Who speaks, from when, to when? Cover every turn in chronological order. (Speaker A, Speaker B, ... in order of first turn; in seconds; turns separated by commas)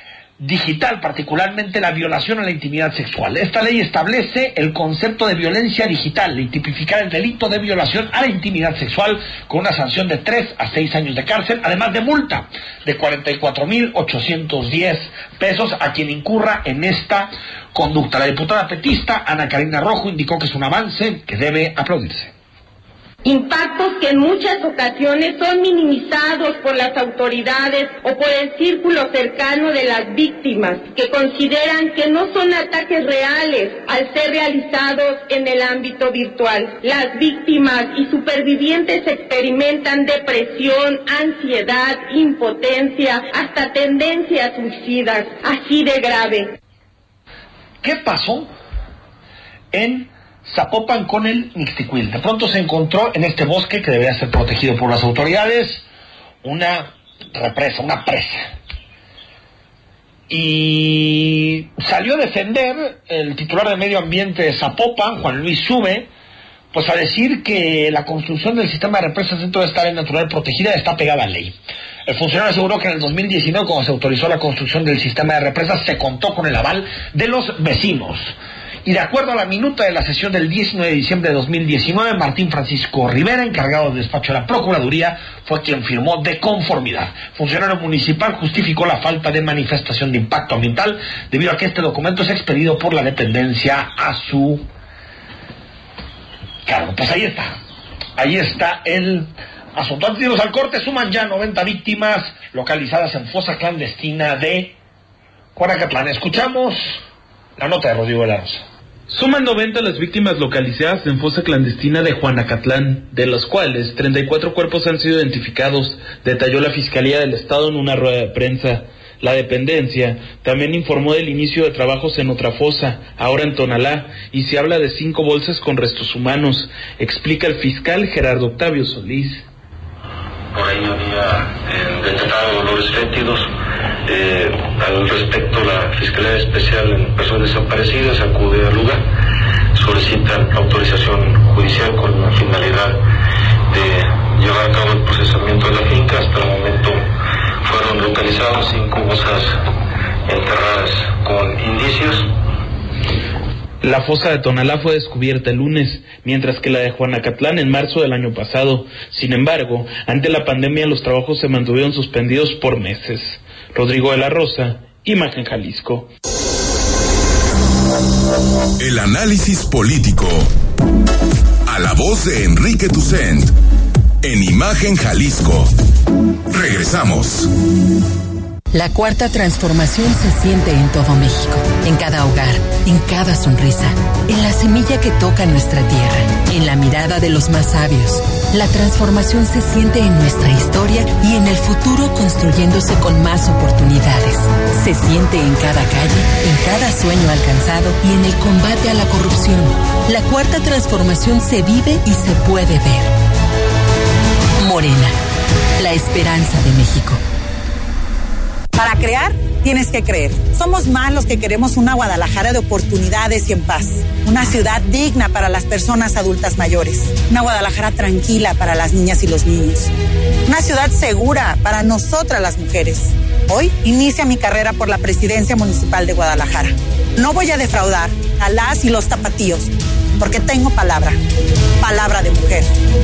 Speaker A: 0.4-22.3, Speaker B: 23.2-46.6, Speaker A: 47.8-48.5, Speaker A: 49.7-55.9, Speaker A: 56.4-58.5, Speaker A: 60.3-66.1, Speaker A: 66.7-94.7, Speaker A: 96.7-97.6, Speaker A: 98.2-104.8, Speaker A: 105.5-107.0, Speaker A: 107.6-108.7, Speaker C: 109.1-129.4, Speaker D: 130.5-133.5, Speaker D: 134.1-139.1, Speaker D: 139.8-143.0, Speaker D: 143.7-147.1, Speaker D: 147.6-149.6, Speaker D: 150.3-152.3, Speaker C: 153.8-166.1, Speaker E: 168.8-170.5, Speaker E: 171.7-173.6, Speaker E: 174.2-175.7, Speaker E: 176.5-177.5, Speaker F: 178.7-203.1, Speaker F: 204.6-205.2, Speaker F: 205.8-207.2, Speaker G: 208.8-219.9, Speaker G: 220.5-231.2, Speaker G: 231.8-232.7